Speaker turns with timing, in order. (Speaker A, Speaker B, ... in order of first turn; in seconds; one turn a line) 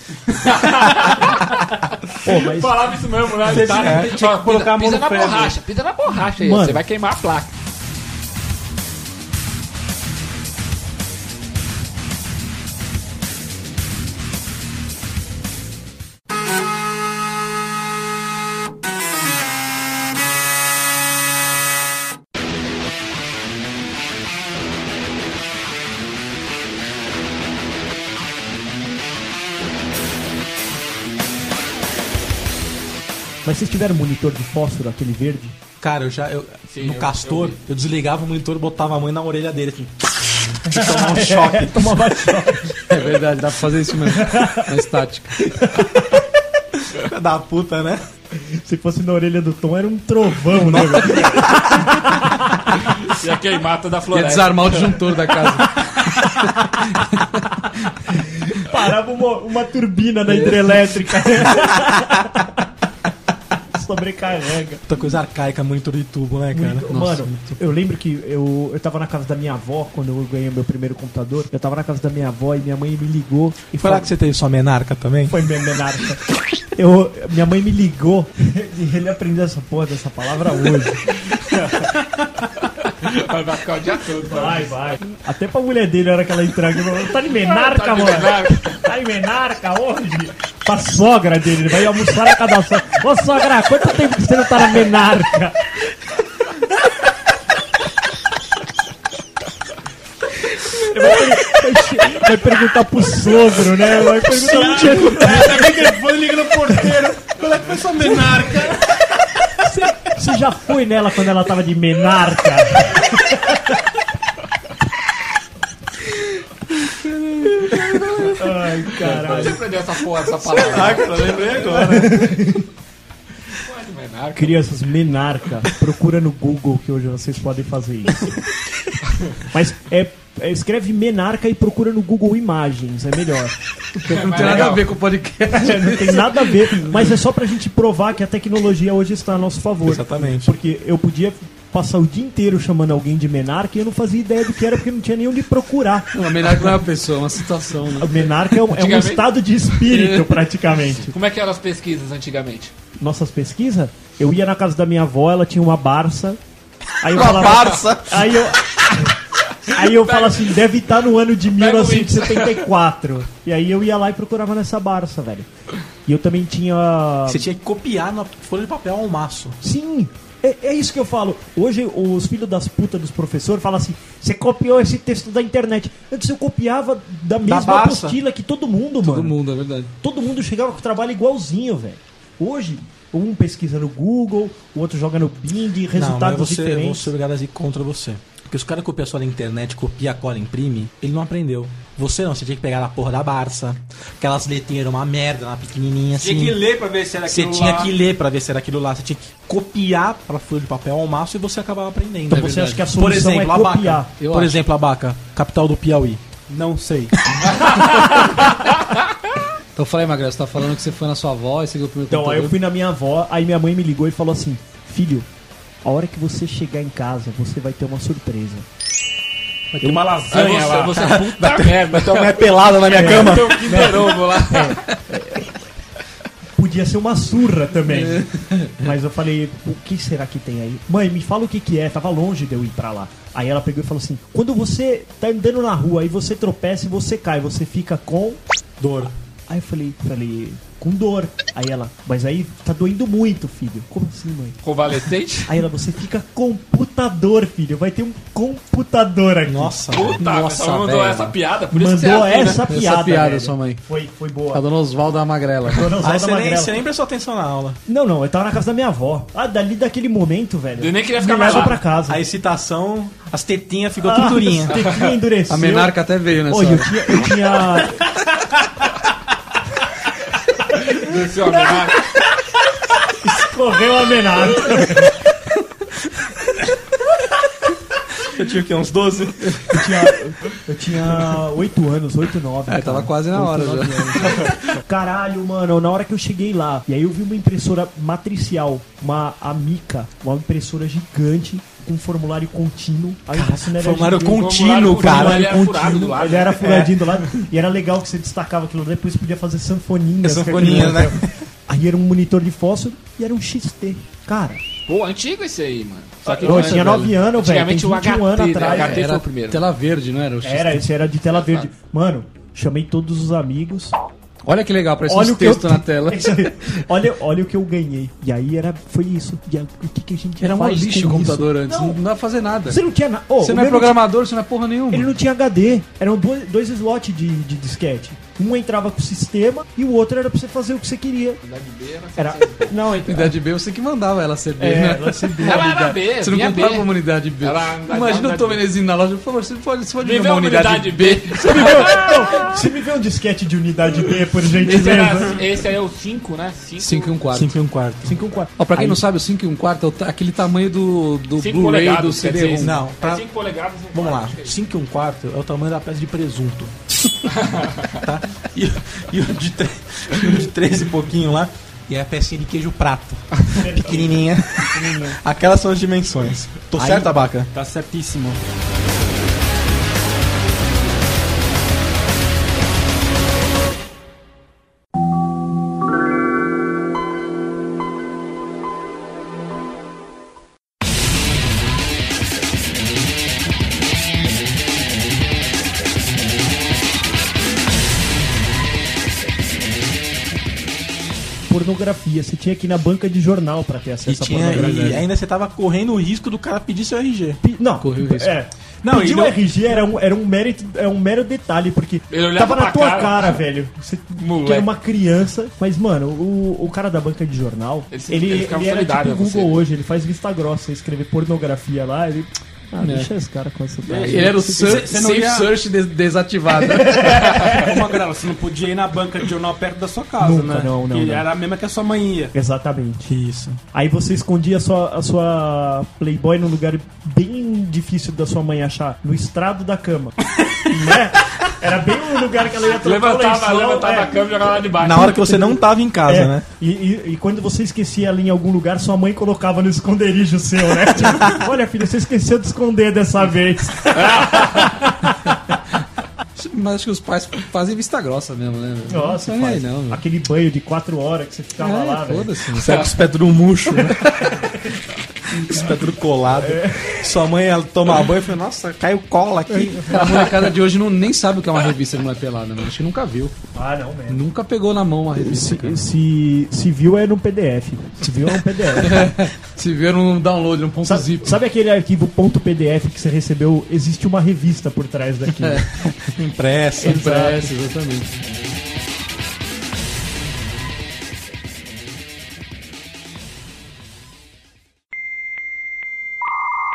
Speaker A: 0.3-7.5
Speaker B: 2.2-2.9
Speaker C: 3.5-5.6
Speaker D: 3.5-4.2
Speaker B: 6.4-6.8
Speaker B: 33.5-35.6
Speaker D: 35.8-42.1
Speaker A: 36.7-37.6
Speaker B: 40.7-43.0
Speaker E: 42.9-45.5
Speaker B: 44.0-44.8
Speaker B: 45.6-46.0
Speaker D: 46.9-48.0
Speaker B: 48.4-52.7
Speaker A: 53.0-55.1
Speaker E: 54.1-57.5
Speaker B: 58.1-62.7
Speaker E: 60.3-60.7
Speaker B: 63.7-64.8
Speaker D: 64.9-67.4
Speaker B: 66.5-74.1
Speaker E: 66.9-67.3
Speaker D: 73.8-75.5
Speaker B: 75.3-76.2
Speaker B: 76.7-81.2
Speaker A: 81.3-81.9
Speaker A: 82.6-84.8
Speaker B: 84.3-95.6
Speaker A: 87.3-88.8
Speaker B: 100.8-106.0
Speaker C: 104.3-109.0
Speaker B: 109.6-113.8
Speaker D: 117.6-118.3
Speaker B: 118.3-119.7
Speaker A: 119.0-121.8
Speaker D: 120.5-122.4
Speaker B: 121.5-122.7
Speaker A: 123.5-124.7
Speaker B: 124.4-128.4
Speaker B: 129.5-133.6
Speaker E: 133.9-137.1
Speaker A: 134.1-134.9
Speaker B: 134.3-134.8
Speaker B: 135.5-146.1
Speaker D: 139.8-140.6
Speaker E: 146.1-148.2
Speaker B: 148.0-151.1
Speaker A: 148.7-149.4
Speaker E: 149.9-150.4
Speaker A: 151.1-152.7
Speaker B: 153.0-156.4
Speaker B: 157.0-159.2
Speaker D: 157.1-158.5
Speaker A: 157.2-157.8
Speaker A: 159.7-160.5
Speaker B: 159.7-165.5
Speaker A: 161.5-162.7
Speaker B: 166.1-167.5
Speaker D: 167.3-169.6
Speaker B: 169.6-179.4
Speaker D: 177.4-178.2
Speaker E: 179.0-179.9
Speaker B: 180.0-187.1
Speaker D: 185.9-196.6
Speaker C: 196.2-197.9
Speaker D: 197.3-206.2
Speaker B: 202.3-204.2
Speaker E: 202.3-202.9
Speaker E: 204.2-204.6
Speaker C: 206.5-207.2
Speaker A: 207.5-208.5
Speaker E: 209.8-212.6
Speaker B: 212.1-215.3
Speaker B: 215.8-218.7
Speaker C: 219.7-220.9
Speaker A: 220.2-224.8
Speaker D: 220.9-224.2
Speaker B: 222.9-225.6
Speaker B: 226.6-238.4
Speaker E: 227.9-228.9
Speaker D: 238.8-239.2
Speaker B: 239.5-244.6
Speaker A: 244.6-245.7
Speaker B: 245.5-250.1
Speaker D: 249.4-250.2
Speaker A: 249.9-252.7
Speaker E: 250.2-251.4
Speaker B: 251.7-254.6
Speaker E: 252.7-253.8
Speaker E: 254.5-255.9
Speaker B: 255.7-256.8
Speaker D: 256.0-257.8
Speaker B: 257.9-262.2
Speaker A: 260.8-261.8
Speaker D: 262.1-264.8
Speaker B: 264.0-268.1
Speaker A: 264.7-265.1
Speaker E: 265.5-267.1
Speaker A: 270.9-272.1
Speaker B: 273.1-275.2
Speaker D: 278.2-279.8
Speaker B: 279.7-304.6
Speaker E: 282.7-284.6
Speaker D: 293.3-297.0
Speaker A: 294.3-296.8
Speaker D: 300.2-301.4
Speaker A: 304.9-309.6
Speaker B: 306.2-309.1
Speaker E: 306.3-307.2
Speaker E: 308.6-310.9
Speaker B: 310.4-314.0
Speaker A: 311.3-311.7
Speaker E: 314.4-316.5
Speaker B: 315.1-322.0
Speaker E: 320.4-322.8
Speaker B: 322.7-324.0
Speaker E: 323.4-325.1
Speaker B: 324.9-331.4
Speaker A: 331.4-332.8
Speaker B: 332.2-333.4
Speaker E: 333.1-342.2
Speaker B: 334.6-335.9
Speaker A: 335.4-338.6
Speaker A: 340.0-342.4
Speaker B: 341.4-345.4
Speaker A: 344.6-347.2
Speaker E: 346.8-347.5
Speaker D: 347.3-348.2
Speaker B: 348.0-348.6
Speaker E: 348.6-352.8
Speaker A: 351.4-354.6
Speaker D: 352.6-353.3
Speaker D: 353.9-357.4
Speaker A: 357.3-358.0
Speaker D: 357.9-367.5
Speaker B: 363.5-365.2
Speaker B: 366.8-367.1
Speaker C: 367.5-368.4
Speaker B: 391.5-395.0
Speaker D: 394.1-397.4
Speaker E: 394.5-395.0
Speaker B: 397.4-414.9
Speaker E: 397.8-398.4
Speaker C: 398.8-399.4
Speaker A: 402.1-403.4
Speaker A: 404.2-404.7
Speaker A: 407.9-409.6
Speaker E: 412.8-413.1
Speaker C: 413.8-415.6
Speaker E: 414.0-417.2
Speaker B: 416.5-417.9
Speaker C: 417.4-422.4
Speaker B: 420.2-421.3
Speaker B: 422.3-423.1
Speaker D: 423.1-423.6
Speaker B: 423.7-445.1
Speaker A: 432.7-435.3
Speaker D: 434.8-436.4
Speaker A: 443.9-444.8
Speaker E: 446.4-450.0
Speaker B: 448.9-452.3
Speaker E: 451.6-452.8
Speaker D: 452.5-454.2
Speaker B: 453.8-454.5
Speaker D: 455.3-459.9
Speaker B: 456.4-457.2
Speaker B: 459.5-460.4
Speaker E: 459.9-463.4
Speaker B: 463.5-464.2
Speaker E: 464.1-465.9
Speaker B: 465.1-469.2
Speaker E: 468.7-471.4
Speaker B: 470.8-475.8
Speaker D: 475.8-477.1
Speaker E: 476.8-478.1
Speaker B: 476.8-477.5